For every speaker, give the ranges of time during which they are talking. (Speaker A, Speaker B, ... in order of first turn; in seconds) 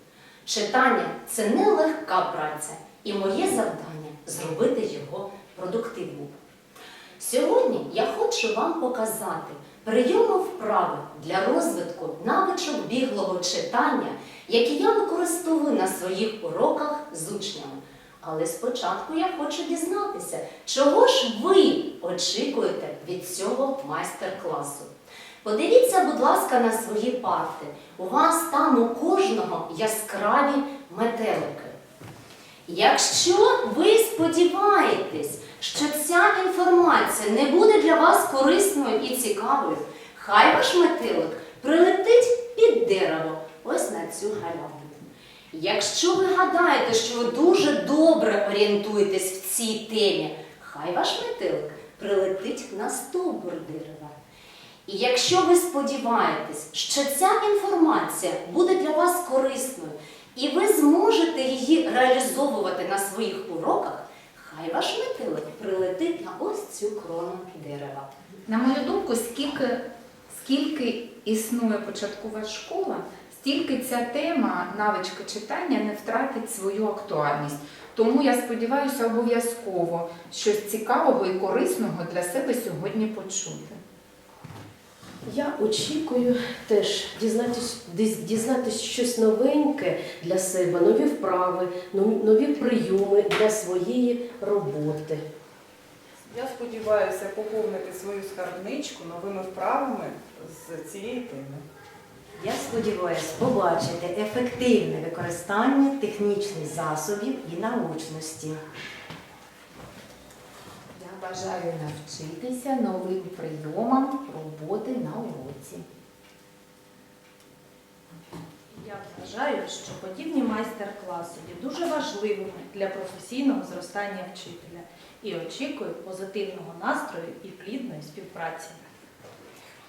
Speaker A: 0.5-6.3, 7.2-24.9, 25.4-31.7, 32.7-54.1, 54.9-68.1
Speaker B: 68.5-83.8, 110.9-115.8
Speaker C: 85.3-95.2
Speaker D: 96.2-101.6
Speaker E: 102.4-108.6
Speaker F: 118.8-128.9